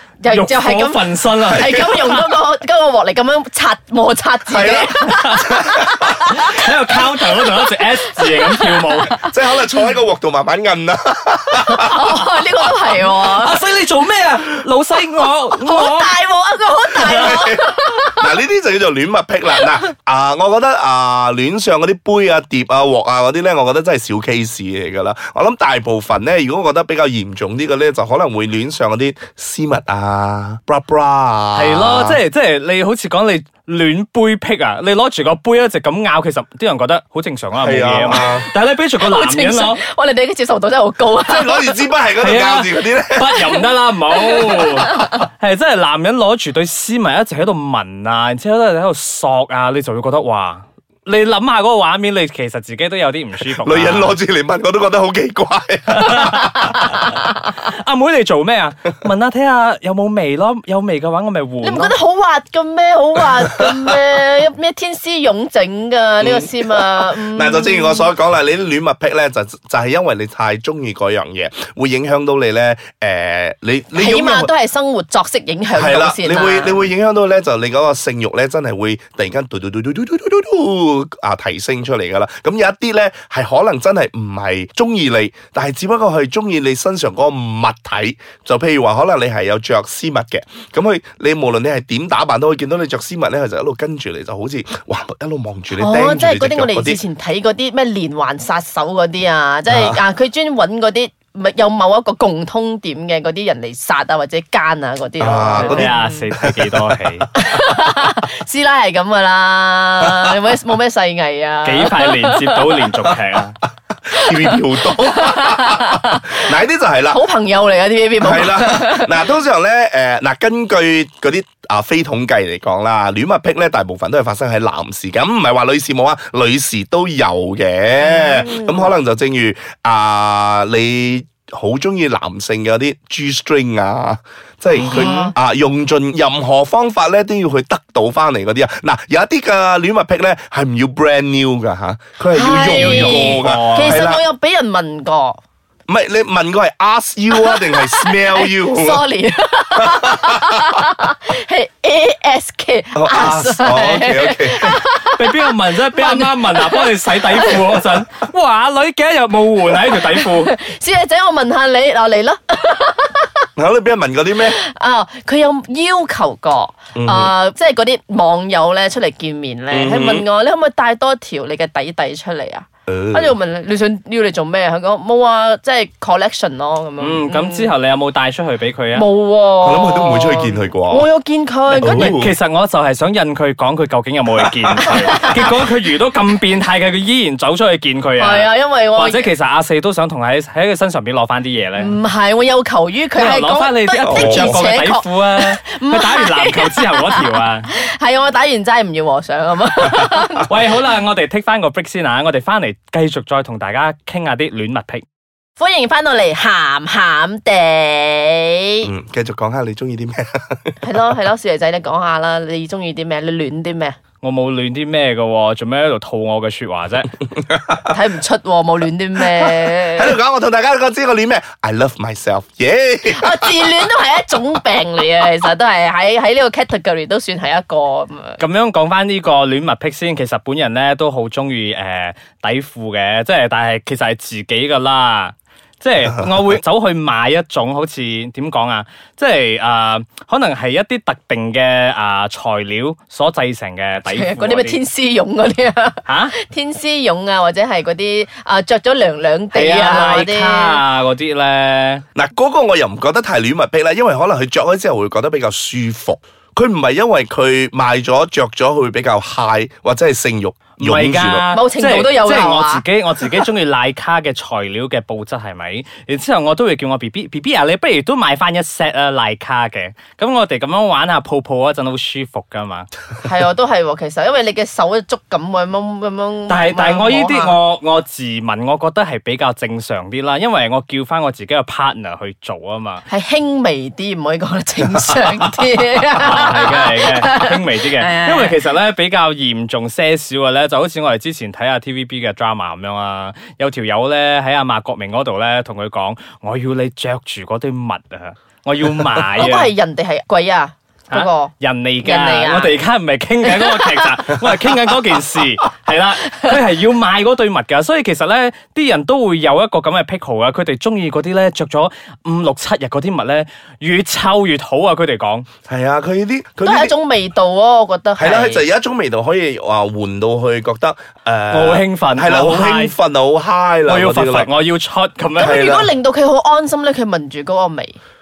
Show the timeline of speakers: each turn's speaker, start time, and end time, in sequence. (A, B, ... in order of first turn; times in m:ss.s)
0:00.2-0:09.3 A
0:00.3-0:02.3 B
0:04.5-0:06.3 C
0:05.0-0:05.6 B
0:06.2-0:09.2 B
0:09.1-0:12.3 C
0:11.6-0:13.6 A
0:12.9-0:16.1 B
0:15.5-0:18.2 A
0:17.0-0:32.2 C
0:31.5-0:39.8 B
0:37.6-0:38.5 C
0:39.0-0:41.8 A
0:41.2-0:43.6 C
0:42.2-0:54.2 B
0:44.3-0:45.2 A
0:53.5-0:56.8 C
0:55.9-1:02.0 B
1:01.6-1:08.1 A
1:06.2-1:14.5 C
1:14.0-1:16.9 A
1:15.7-1:37.0 C
1:35.7-1:46.2 A
1:39.7-1:40.0 C
1:45.2-1:46.9 C
1:45.6-1:47.3 B
1:47.4-1:52.9 A
1:51.6-1:53.6 B
1:54.1-1:57.2 C
1:54.1-1:56.5 A
1:57.1-1:59.2 A
1:58.2-2:24.2 C
2:08.0-2:08.9 A
2:14.8-2:15.3 B
2:14.8-2:15.3 A
2:22.3-2:25.4 A
2:22.6-2:24.0 B
2:25.9-2:29.0 C
2:27.3-2:37.8 A
2:29.8-2:30.6 C
2:32.9-2:34.8 C
2:35.1-2:40.5 B
2:39.8-2:43.5 A
2:43.6-2:44.6 C
2:44.4-2:57.7 A
2:47.0-2:47.3 C
2:49.7-2:50.2 C
2:52.9-2:53.4 C
2:57.0-2:59.1 B
2:58.9-3:02.2 A
2:59.6-3:01.1 C
3:01.7-3:02.3 C
3:01.8-3:12.0 B
3:04.4-3:05.4 C
3:08.2-3:09.3 A
3:11.8-3:20.6 A
3:13.1-3:17.7 B
3:14.0-3:14.6 C
3:20.5-3:25.0 B
3:25.6-3:28.9 A
3:28.8-3:30.8 C
3:30.8-3:34.0 A
3:34.2-3:37.1 B
3:37.3-3:37.9 C
3:37.9-3:40.2 A
3:39.4-3:43.8 C
3:43.1-3:48.4 A
3:48.4-4:04.8 B
4:04.1-4:10.8 A
4:06.1-4:06.3 B
4:09.5-4:12.0 B
4:12.2-4:21.5 C
4:20.8-4:32.9 B
4:21.5-4:22.8 A
4:33.2-4:37.6 A
4:36.5-4:43.0 B
4:43.1-4:48.6 A
4:46.2-4:59.7 B
4:59.4-5:02.8 A
5:01.1-5:15.5 B
5:03.4-5:04.2 A
5:15.7-5:16.9 C
5:16.6-5:18.6 A
5:18.2-5:24.5 C
5:21.5-5:23.0 B
5:23.9-5:25.6 B
5:25.4-5:28.0 A
5:25.4-5:25.9 C